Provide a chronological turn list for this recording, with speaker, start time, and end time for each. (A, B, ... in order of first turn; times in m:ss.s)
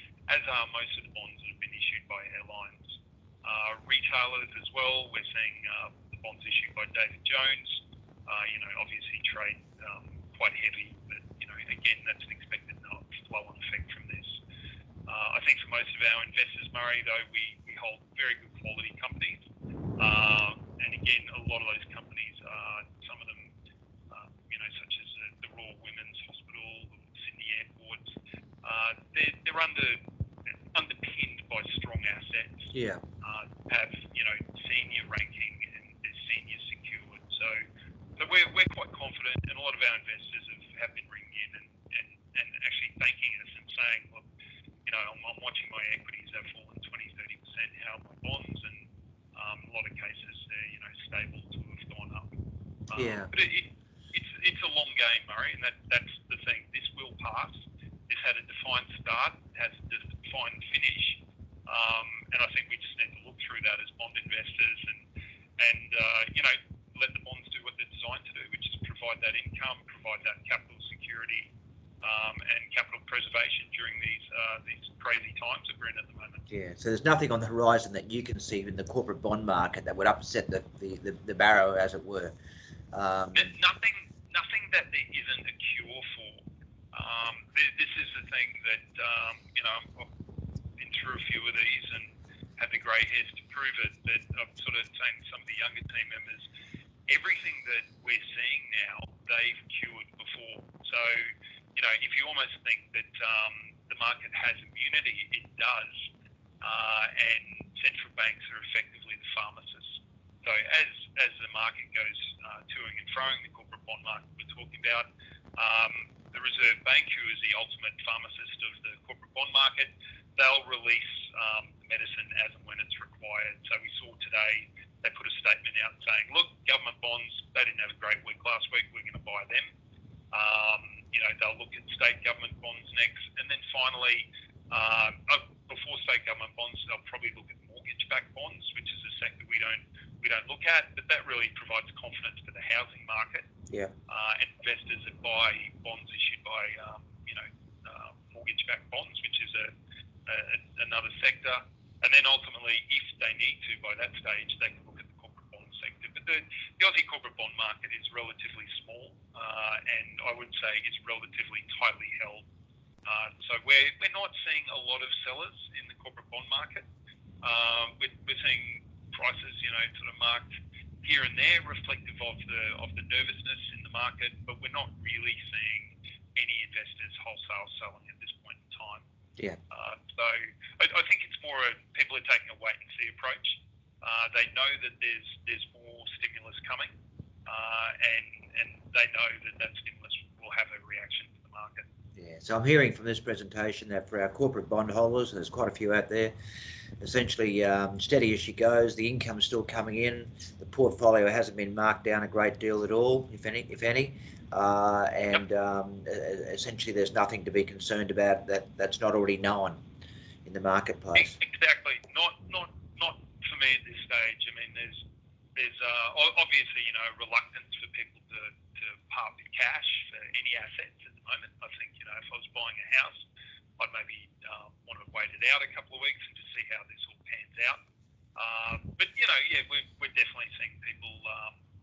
0:00.3-0:14.4 A
0:15.1-0:19.4 A
0:20.0-0:23.5 A
0:24.1-0:28.1 A
0:28.6-0:30.0 A
0:30.7-0:37.7 A
0:32.7-0:33.0 B
0:38.2-0:44.3 A
0:44.9-0:52.4 A
0:52.9-1:05.1 A
0:53.0-0:53.3 B
1:05.6-1:16.5 A
1:16.5-1:22.4 B
1:22.9-1:23.5 B
1:23.4-1:30.1 A
1:30.8-1:36.5 A
1:37.1-1:46.1 A
1:46.6-2:09.7 A
2:10.3-2:23.5 A
2:24.1-2:29.7 A
2:30.3-2:42.5 A
2:43.1-2:46.9 A
2:47.4-2:59.0 A
2:59.7-3:06.9 A
3:07.5-3:11.9 A
3:12.2-3:16.4 B
3:17.0-3:29.8 B
3:30.4-3:31.4 B
3:31.1-3:35.0 A
3:35.6-3:43.3 A
3:43.8-3:47.8 A
3:48.4-3:51.6 A